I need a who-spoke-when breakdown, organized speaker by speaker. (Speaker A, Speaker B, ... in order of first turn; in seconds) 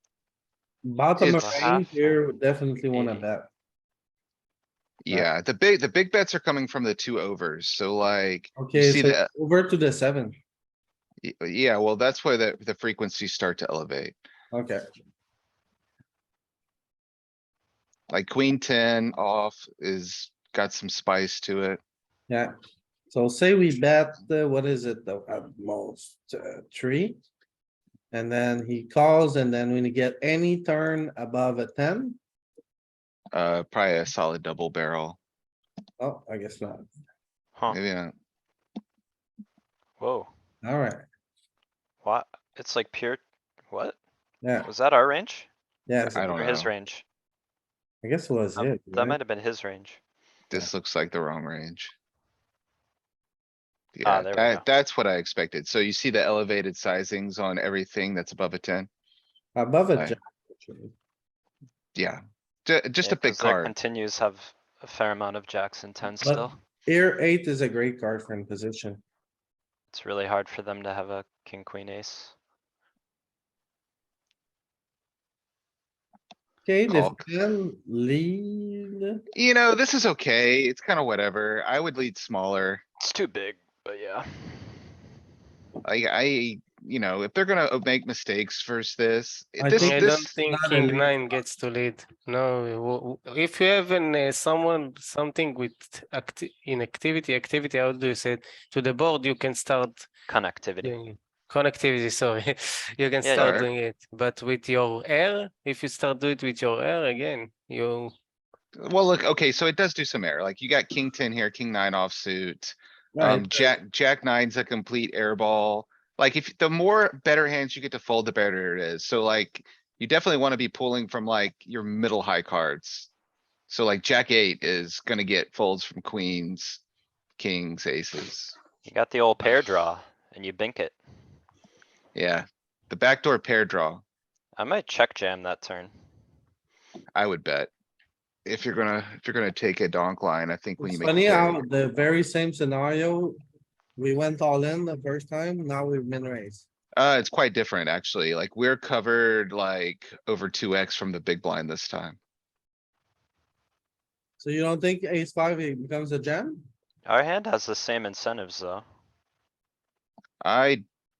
Speaker A: 0.8-3.5, 8.5-10.3, 14.5-14.8, 23.1-27.2, 28.1-32.2, 36.0-36.8, 40.6-41.0, 44.4-44.7, 45.9-46.6, 48.0-49.2, 59.5-60.9, 66.2-69.0, 76.7-79.2, 89.6-91.2, 113.1-113.8, 140.8-143.3, 144.0-146.6, 154.4-156.7
Speaker B: 1.2-2.2, 2.9-3.2, 40.0-40.3, 42.0-44.0, 44.6-45.5, 46.3-47.0, 48.6-50.0, 54.0-54.7, 63.0-66.6, 69.9-72.3, 83.0-84.9, 100.3-100.9, 103.2-103.6, 128.8-131.0, 134.6-135.9, 157.0-158.8
Speaker C: 1.2-1.7, 5.0-9.3, 11.2-14.2, 18.1-21.8, 33.3-35.2, 37.7-38.1, 46.1-46.7, 50.5-51.9, 53.9-58.9, 61.9-63.7, 76.9-77.3, 79.3-82.8, 85.8-90.4, 103.3-103.7, 108.8-123.1, 123.7-126.8, 127.4-128.6, 132.1-134.0, 137.1-137.7, 138.4-141.7, 146.9-152.2, 160.4-160.8
Speaker D: 89.7-100.1, 100.8-108.1